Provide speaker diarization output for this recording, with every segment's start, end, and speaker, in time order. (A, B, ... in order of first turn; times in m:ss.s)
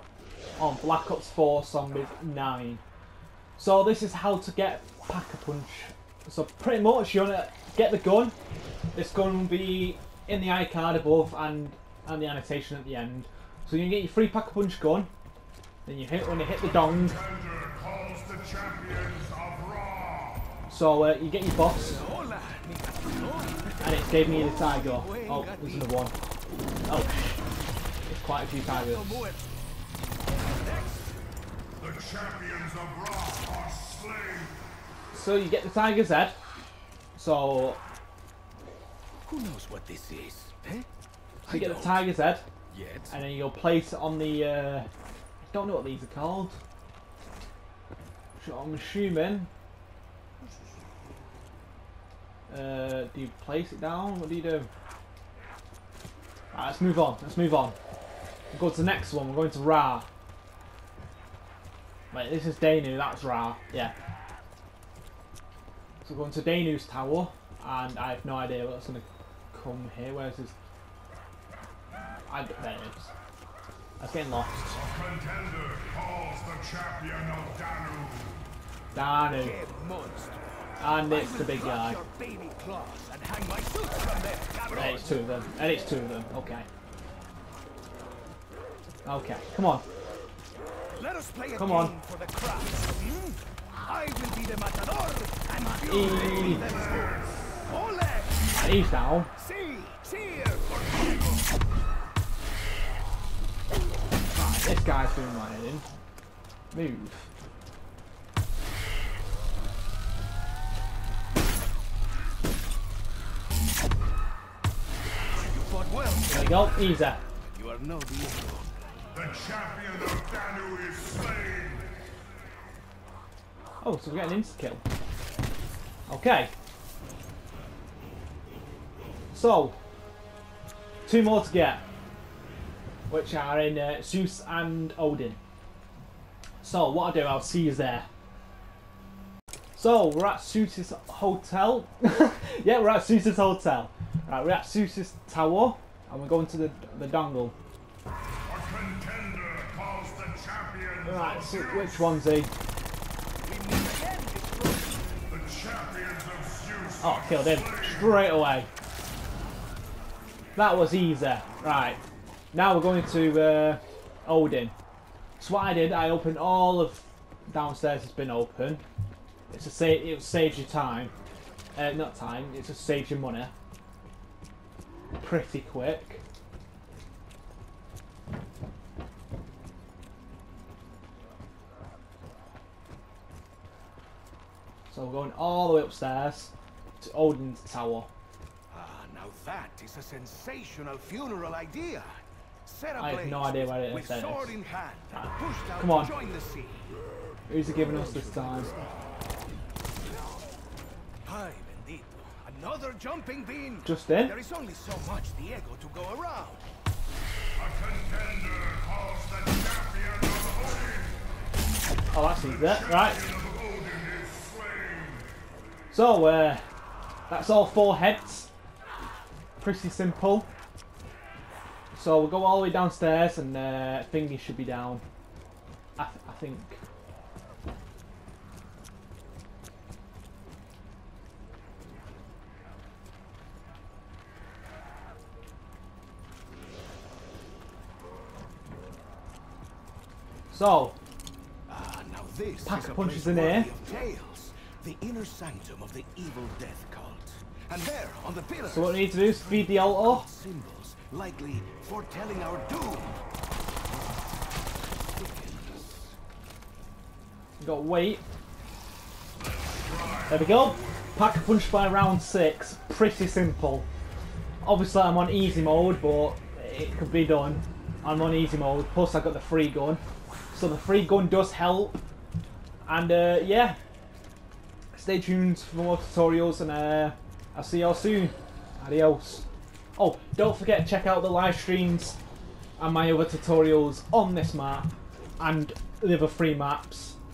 0:00.6-0:02.8 A
0:03.6-0:08.3 A
0:08.9-0:15.1 A
0:15.8-0:17.2 A
0:16.5-0:20.5 B
0:20.7-0:22.0 A
0:21.7-0:25.9 C
0:23.8-0:26.1 A
0:26.8-0:27.4 A
0:28.0-0:29.2 A
0:28.6-0:29.5 C
0:30.6-0:31.2 C
0:31.8-0:34.6 B
0:35.1-0:36.4 A
0:37.1-0:37.8 A
0:39.2-0:40.9 C
0:41.4-0:42.1 C
0:41.5-0:42.4 A
0:42.7-0:43.1 C
0:43.1-0:44.9 A
0:45.4-0:46.6 A
0:48.4-0:49.5 A
0:52.5-0:54.7 A
0:56.5-0:57.8 A
0:58.5-1:00.1 A
1:02.1-1:03.9 A
1:06.0-1:10.6 A
1:12.3-1:13.1 A
1:14.0-1:14.8 A
1:14.7-1:18.4 B
1:18.9-1:19.6 A
1:19.3-1:25.2 C
1:20.8-1:22.0 A
1:24.7-1:26.7 A
1:29.0-1:29.8 A
1:30.9-1:38.5 C
1:31.5-1:31.9 A
1:35.8-1:36.6 A
1:36.1-1:37.7 B
1:38.5-1:39.3 A
1:39.3-1:41.4 C
1:44.3-1:45.8 A
1:46.7-1:47.2 A
1:55.3-1:58.7 C
1:56.3-1:57.2 A
1:59.1-2:01.9 B
2:03.8-2:04.8 A
2:06.1-2:06.5 A
2:09.3-2:09.8 A
2:11.0-2:11.8 A
2:13.1-2:15.4 A
2:16.6-2:18.1 A
2:19.8-2:27.5 A
2:28.4-2:32.1 B
2:31.0-2:32.5 A
2:33.4-2:35.1 C
2:35.3-2:38.2 B
2:37.0-2:38.7 A
2:40.6-2:42.0 A
2:42.5-2:44.7 A
2:45.4-2:48.8 A
2:49.5-2:51.1 A
2:51.7-2:53.5 A
2:55.2-2:56.2 A
3:04.9-3:08.1 A
3:08.7-3:16.9 C
3:13.0-3:14.6 A
3:15.1-3:16.1 A
3:17.5-3:18.7 A
3:17.8-3:18.8 C
3:21.2-3:26.7 C
3:23.8-3:24.3 A
3:27.6-3:31.2 B
3:32.1-3:33.2 A
3:32.4-3:35.3 B
3:35.9-3:36.6 A
3:37.3-3:38.5 A
3:39.6-3:40.5 A
3:41.9-3:45.0 A
3:46.0-3:46.8 A
4:00.5-4:01.0 A
4:01.7-4:13.2 C
4:02.6-4:03.7 A
4:08.6-4:10.3 A
4:15.1-4:16.1 C
4:17.6-4:18.2 A
4:19.4-4:20.9 B
4:20.3-4:23.9 A
4:24.6-4:30.0 A
4:30.5-4:32.0 A
4:32.8-4:33.8 A
4:34.9-4:39.4 A
4:40.0-4:42.2 A
4:42.8-4:47.2 A